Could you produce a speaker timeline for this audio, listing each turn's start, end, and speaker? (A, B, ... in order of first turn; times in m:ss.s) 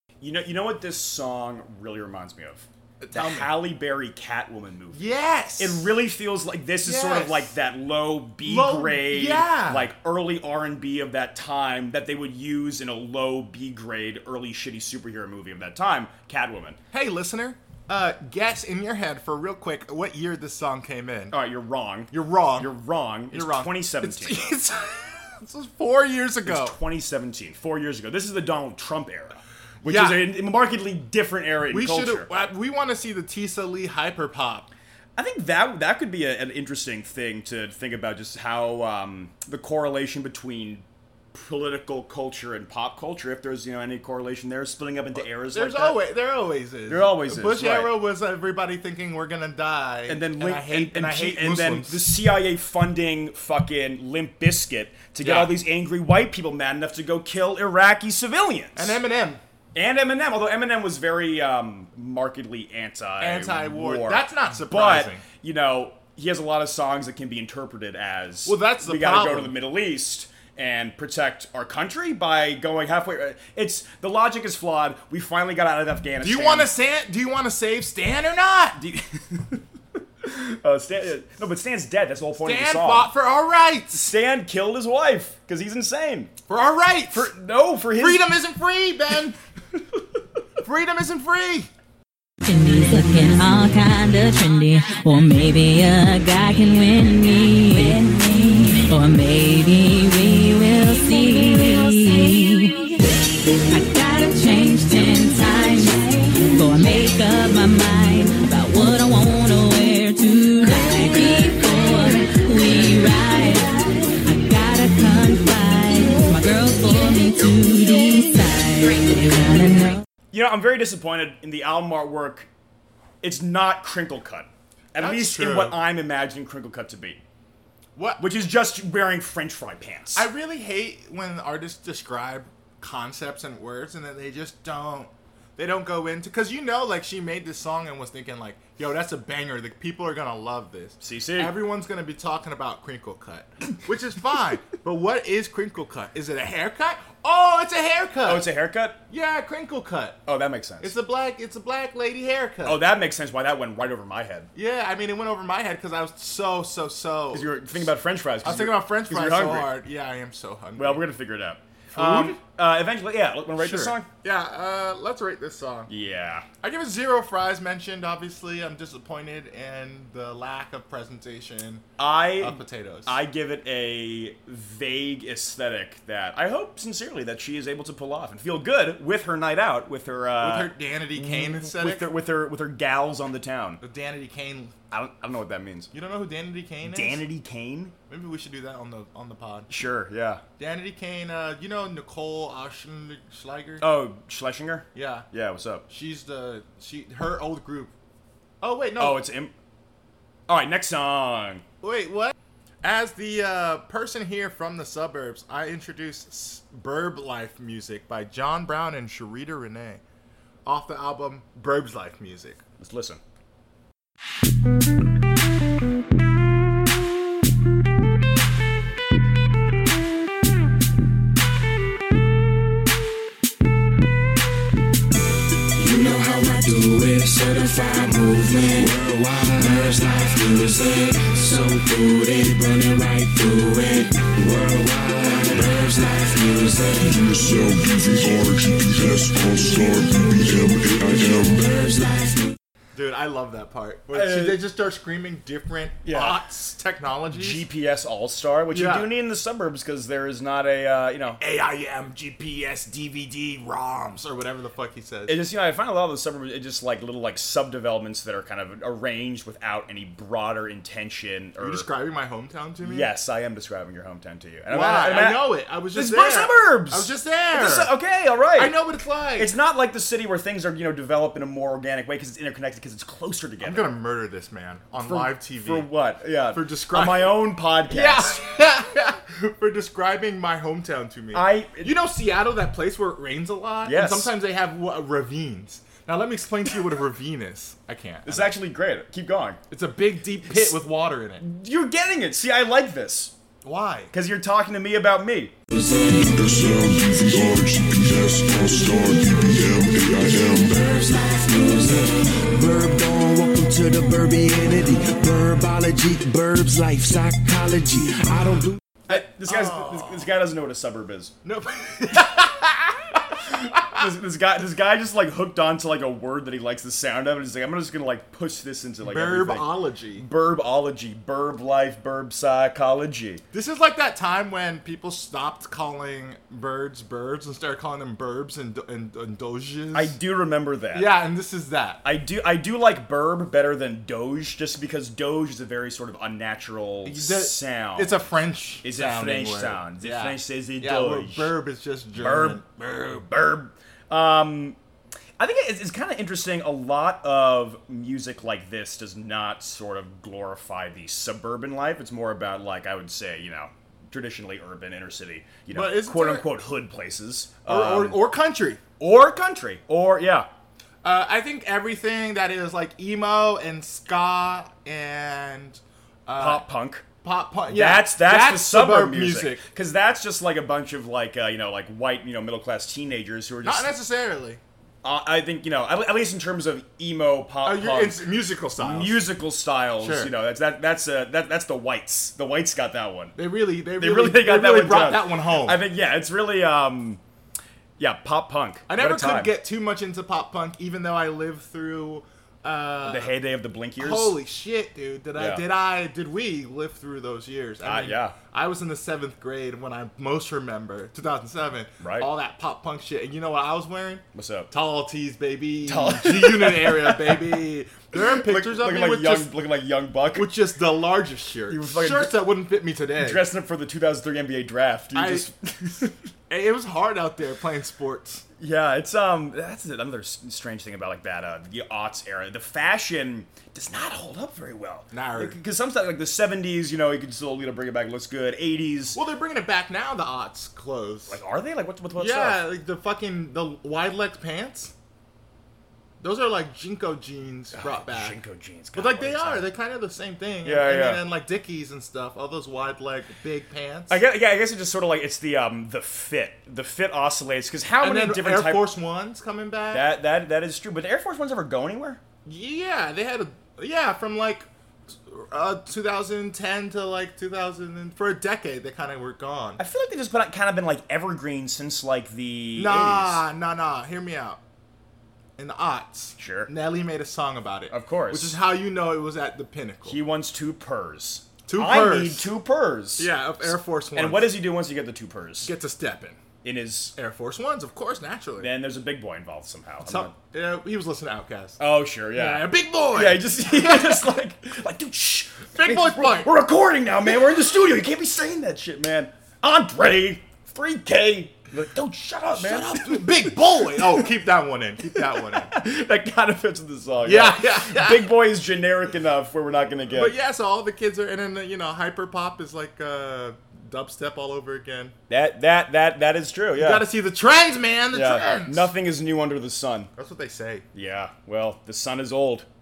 0:00.2-0:05.0 A
0:03.0-0:03.5 B
0:04.9-0:05.9 B
0:05.6-0:16.8 A
0:06.8-0:07.5 B
0:08.4-0:09.9 B
0:16.9-0:21.4 B
0:21.3-0:24.4 A
0:22.1-0:22.7 B
0:23.3-0:26.8 B
0:26.5-0:32.3 A
0:29.8-0:30.3 B
0:31.7-0:34.7 B
0:35.2-0:46.0 A
0:45.2-0:52.1 B
0:46.9-0:47.9 A
0:50.1-0:59.0 A
0:55.2-0:55.6 B
0:58.8-0:59.4 B
0:59.8-1:16.7 A
1:03.2-1:05.2 B
1:08.5-1:09.5 B
1:16.2-1:18.8 B
1:18.8-1:19.6 A
1:20.2-1:23.1 A
1:22.4-1:24.1 B
1:23.9-1:26.3 A
1:26.5-1:27.3 B
1:27.1-1:28.3 A
1:28.0-1:29.4 B
1:30.6-1:31.7 B
1:32.4-1:43.0 C
1:43.7-2:00.0 C
2:00.3-2:02.5 A
2:03.2-2:07.2 A
2:05.0-2:05.8 B
2:08.0-2:08.2 B
2:08.2-2:10.3 A
2:10.1-2:28.5 B
2:21.0-2:21.6 A
2:28.2-2:29.0 A
2:29.1-2:30.2 B
2:30.3-2:30.9 A
2:30.8-2:32.8 B
2:32.6-2:34.5 A
2:34.6-2:37.9 B
2:37.3-2:39.7 A
2:38.4-2:41.0 B
2:40.8-2:44.1 A
2:41.9-2:42.4 B
2:43.6-2:45.9 B
2:45.9-2:46.5 A
2:46.6-2:51.8 B
2:52.0-3:03.8 A
2:52.4-2:53.2 B
3:00.4-3:02.1 B
3:03.8-3:04.7 B
3:04.9-3:05.9 A
3:05.9-3:07.2 B
3:06.9-3:07.9 A
3:08.1-3:09.7 B
3:09.7-3:10.4 A
3:10.6-3:13.8 B
3:13.8-3:15.8 A
3:15.0-3:15.3 B
3:15.9-3:17.9 B
3:18.6-3:19.2 B
3:19.0-3:19.5 A
3:20.5-3:21.6 A
3:21.8-3:30.0 B
3:30.7-3:32.6 B
3:32.8-3:33.2 A
3:45.7-3:57.3 D
3:57.1-4:01.6 E
4:01.3-4:02.6 D
4:03.0-4:07.6 B
4:04.1-4:04.6 A
4:06.0-4:06.4 A
4:07.3-4:11.4 A
4:08.7-4:09.1 B
4:11.4-4:15.4 B
4:15.3-4:21.9 A
4:21.6-4:23.1 B
4:22.8-4:28.8 A
4:24.7-4:27.9 B
4:28.6-4:29.5 B
4:29.4-4:33.9 A
4:33.6-4:35.9 B
4:35.0-4:38.4 A
4:36.5-4:37.4 B
4:37.9-4:48.5 B
4:41.3-4:41.9 A
4:43.8-4:44.3 A
4:48.3-4:49.6 A
4:49.7-4:51.5 B
4:51.4-4:53.3 A
4:53.6-4:54.1 B
4:54.1-4:55.5 A
4:55.8-4:56.4 D
4:56.3-5:00.8 E
5:00.5-5:08.8 D
5:09.1-5:11.3 A
5:09.1-5:10.3 B
5:11.4-5:14.0 B
5:13.5-5:23.4 A
5:19.0-5:20.3 B
5:23.5-5:30.2 B
5:29.9-5:31.2 A
5:30.9-5:32.0 B
5:32.0-5:38.2 A
5:37.0-5:42.6 B
5:38.8-5:41.5 A
5:42.2-5:44.8 A
5:45.4-5:58.2 A
5:55.7-5:56.5 B
5:57.7-5:58.8 B
5:59.0-6:00.5 A
6:01.0-6:06.6 B
6:06.4-6:07.1 A
6:07.2-6:09.6 B
6:07.7-6:13.9 A
6:13.6-6:14.6 B
6:15.0-6:18.3 A
6:17.6-6:19.2 B
6:18.8-6:23.4 A
6:20.0-6:20.3 B
6:23.4-6:25.8 B
6:24.0-6:27.2 A
6:28.0-6:29.5 A
6:28.9-6:33.3 B
6:33.0-6:34.4 A
6:34.0-6:49.5 B
6:35.4-6:35.6 A
6:37.8-6:38.4 A
6:42.0-6:42.3 A
6:44.4-6:44.7 A
6:45.9-6:47.5 A
6:48.2-6:50.5 A
6:50.4-6:53.4 B
6:51.7-6:52.5 A
6:53.2-6:56.2 A
6:55.1-6:55.5 B
6:56.5-6:58.4 B
6:58.6-7:09.2 A
7:05.1-7:05.6 B
7:09.2-7:11.4 B
7:11.3-7:12.6 A
7:12.2-7:14.9 B
7:16.2-7:18.4 B
7:17.7-7:19.7 A
7:19.0-7:24.2 B
7:20.6-7:21.2 A
7:24.1-7:28.9 A
7:28.0-7:30.1 B
7:29.9-7:32.2 A
7:32.5-7:39.8 B
7:39.8-7:43.4 A
7:42.8-7:44.6 B
7:45.6-7:50.2 B
7:46.4-7:46.7 A
7:47.9-7:48.6 A
7:50.1-7:55.7 A
7:51.7-7:52.5 B
7:53.2-7:54.6 B
7:55.6-7:56.4 B
7:56.6-7:57.2 A
7:57.2-7:58.7 B
7:58.6-8:00.3 A
8:00.0-8:01.8 B
8:01.8-8:14.2 A
8:02.3-8:04.3 B
8:05.8-8:06.5 B
8:12.5-8:15.7 B
8:15.5-8:20.4 A
8:17.2-8:18.3 B
8:20.1-8:25.2 B
8:25.3-8:27.1 A
8:26.8-8:28.9 B
8:28.1-8:30.1 A
8:30.2-8:30.8 B
8:30.9-8:32.7 A